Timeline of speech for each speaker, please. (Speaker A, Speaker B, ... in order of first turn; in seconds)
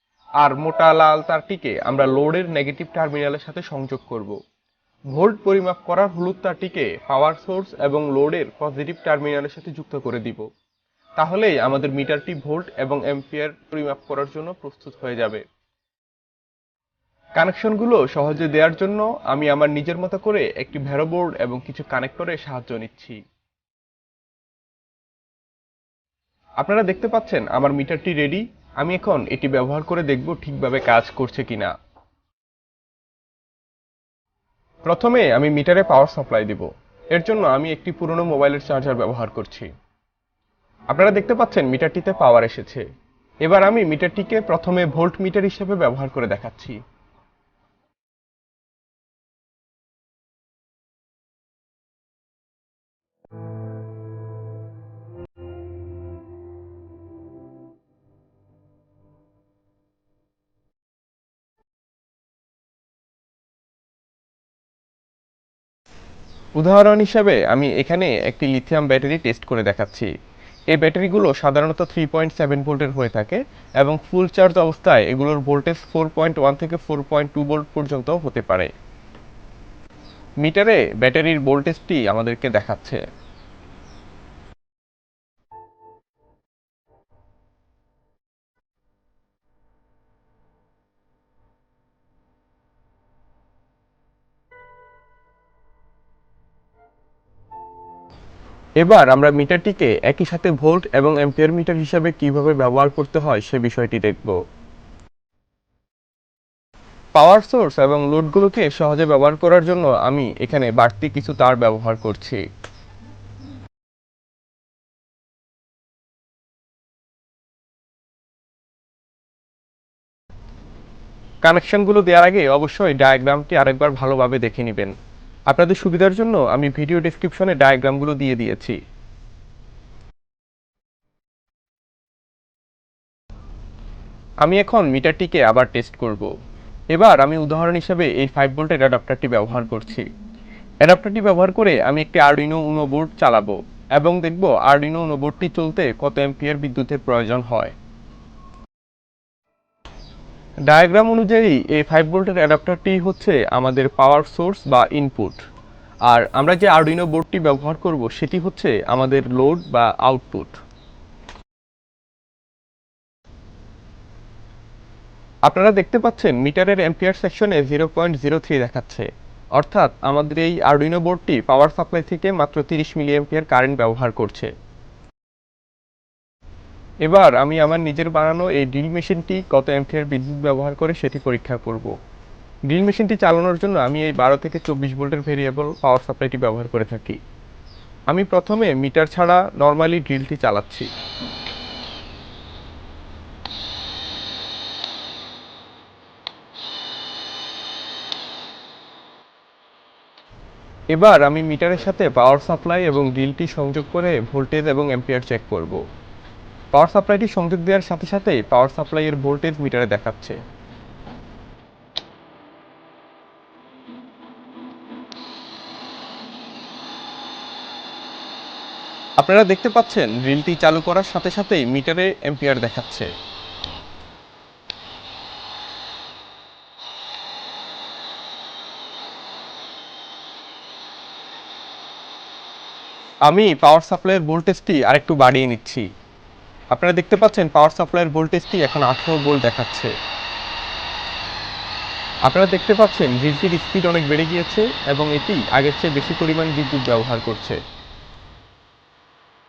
Speaker A: 0.4-4.4, 5.1-10.4, 11.2-15.4, 17.4-23.2, 26.6-31.7, 34.9-39.7, 40.9-42.8, 43.4-46.8, 66.6-70.1, 70.7-78.7, 80.4-83.0, 98.8-104.4, 107.1-112.4, 121.4-124.9, 125.5-128.8, 134.4-136.3, 136.9-140.1, 140.8-147.7, 150.7-155.4, 156.1-160.5, 165.4-174.5, 177.0-181.9, 182.7-187.2, 188.1-190.9, 200.9-205.8, 206.7-210.4, 219.2-223.1, 233.3-235.8, 236.7-239.9, 242.2-247.6